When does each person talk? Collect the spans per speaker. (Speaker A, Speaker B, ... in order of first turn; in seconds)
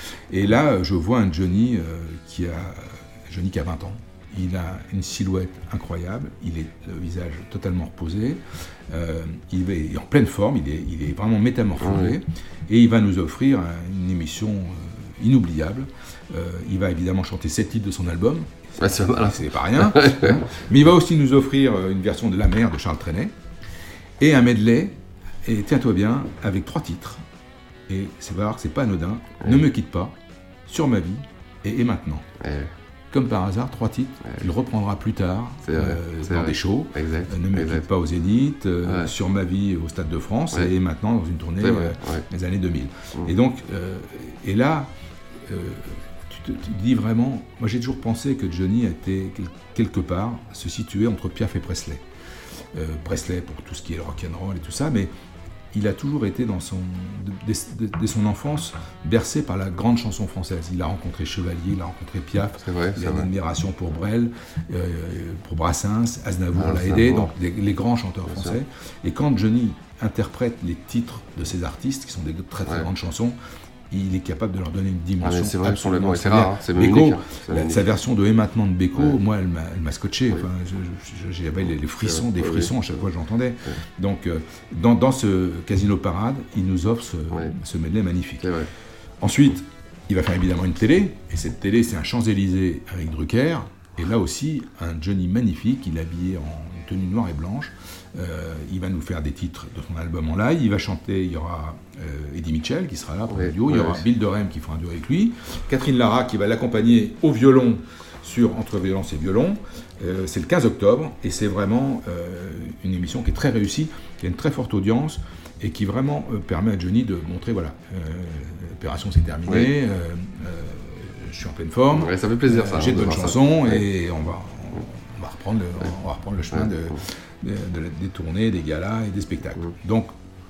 Speaker A: 0.3-23.3, 24.2-27.2, 27.9-30.1, 30.7-32.3, 33.1-52.0, 52.7-55.1, 55.7-73.4, 73.9-88.5, 89.2-130.1
Speaker B: 11.8-12.2, 18.8-20.4, 32.4-32.7, 35.6-37.9, 38.8-39.1, 41.6-42.2, 62.6-63.3, 66.6-67.3, 68.3-68.6, 75.2-77.8, 82.0-82.7, 88.4-88.7, 103.3-104.0, 121.9-123.8